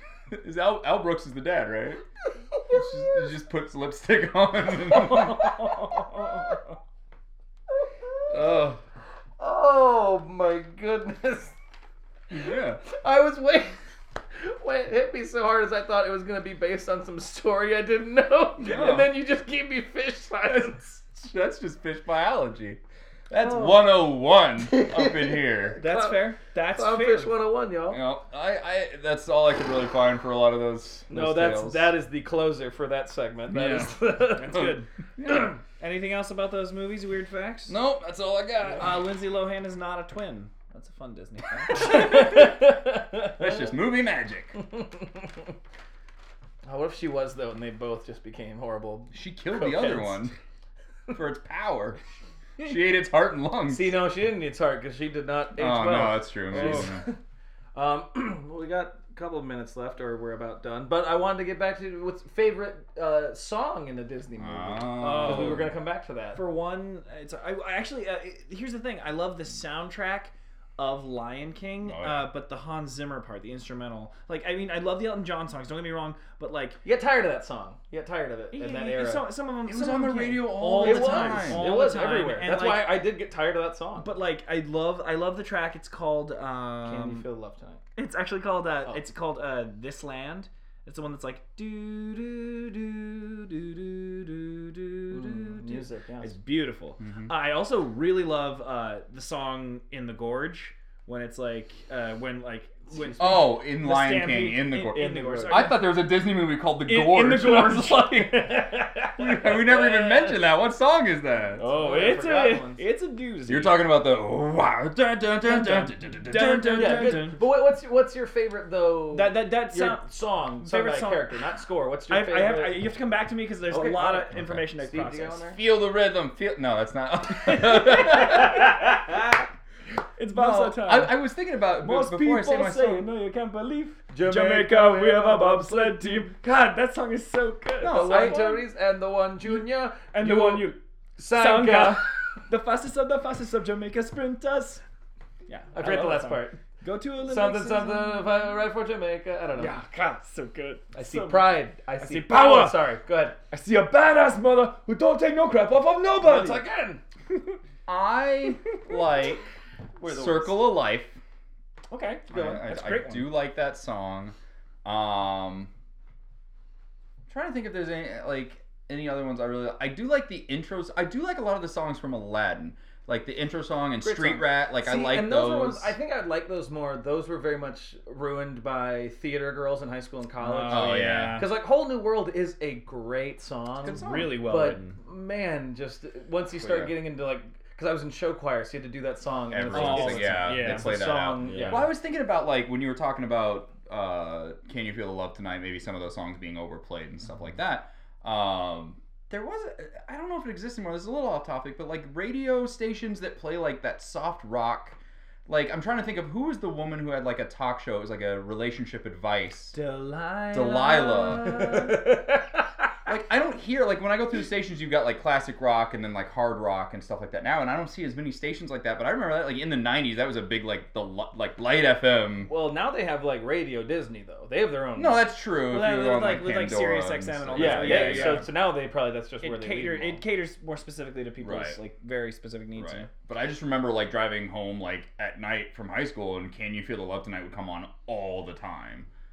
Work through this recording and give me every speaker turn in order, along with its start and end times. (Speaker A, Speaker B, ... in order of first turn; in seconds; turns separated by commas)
Speaker A: 0.3-2.0, Speaker A: 2.7-5.8, Speaker B: 4.9-6.4, Speaker A: 8.3-8.8, Speaker B: 9.4-11.6, Speaker A: 12.3-12.8, Speaker B: 12.8-13.8, Speaker B: 14.3-21.0, Speaker A: 18.6-19.1, Speaker A: 20.5-25.8, Speaker C: 23.4-23.9, Speaker B: 24.6-28.0, Speaker C: 25.8-27.3, Speaker A: 27.9-31.9, Speaker B: 31.1-34.8, Speaker A: 33.5-34.0, Speaker C: 34.2-34.9, Speaker A: 34.5-35.6, Speaker C: 35.7-37.8, Speaker A: 37.7-39.0, Speaker C: 38.8-42.1, Speaker B: 41.7-43.6, Speaker A: 41.8-42.5, Speaker A: 43.4-44.5, Speaker B: 44.6-45.5, Speaker B: 46.7-50.3, Speaker A: 49.1-50.3, Speaker A: 51.1-52.0, Speaker A: 52.6-54.0, Speaker B: 53.7-57.2, Speaker A: 55.6-57.0, Speaker C: 56.5-56.9, Speaker B: 57.8-66.4, Speaker A: 64.4-65.7, Speaker C: 65.0-65.7, Speaker C: 66.3-76.8, Speaker A: 71.8-72.2, Speaker B: 76.8-79.2, Speaker C: 78.5-83.0, Speaker A: 79.7-81.7, Speaker B: 80.7-84.1, Speaker C: 84.0-87.2, Speaker B: 86.8-87.8, Speaker C: 88.0-105.9, Speaker B: 95.1-96.3, Speaker A: 97.0-97.3, Speaker B: 102.9-103.4, Speaker A: 103.2-108.6, Speaker B: 105.0-105.8, Speaker C: 106.8-108.8, Speaker B: 108.8-110.4, Speaker A: 109.2-111.6, Speaker C: 111.6-113.8, Speaker B: 111.6-112.8, Speaker A: 113.5-117.3, Speaker C: 115.4-117.4, Speaker B: 116.7-122.9, Speaker C: 119.1-120.0, Speaker C: 120.6-121.3, Speaker C: 122.1-125.5, Speaker B: 123.7-124.4, Speaker A: 124.3-124.7, Speaker B: 124.9-125.6, Speaker A: 125.5-129.2, Speaker C: 127.5-129.3, Speaker C: 130.2-131.2, Speaker A: 130.3-133.1, Speaker C: 131.8-138.3, Speaker B: 134.1-136.2, Speaker A: 137.8-138.6, Speaker B: 137.8-142.4, Speaker C: 140.1-140.8, Speaker C: 141.3-144.8, Speaker C: 145.5-148.4, Speaker B: 145.7-146.6, Speaker B: 147.2-149.8, Speaker C: 149.6-152.8, Speaker B: 150.9-153.4, Speaker C: 153.5-156.7, Speaker B: 156.2-157.0, Speaker C: 157.3-157.6, Speaker A: 157.9-159.4, Speaker B: 160.0-160.7, Speaker A: 160.1-161.2, Speaker C: 161.9-163.4, Speaker A: 162.3-165.7, Speaker A: 167.3-176.0, Speaker B: 174.0-191.9, Speaker C: 180.4-181.5, Speaker A: 180.7-181.4, Speaker A: 183.8-184.4, Speaker C: 183.9-185.0, Speaker A: 186.6-186.9, Speaker A: 189.5-209.8, Speaker C: 189.7-191.9, Speaker C: 209.7-212.2, Speaker A: 210.5-211.9, Speaker B: 212.0-212.4, Speaker A: 213.1-222.5, Speaker B: 222.5-225.3, Speaker A: 225.0-228.5, Speaker C: 225.7-228.5, Speaker B: 227.5-230.2, Speaker C: 229.4-233.1, Speaker A: 231.4-231.8, Speaker A: 232.8-239.1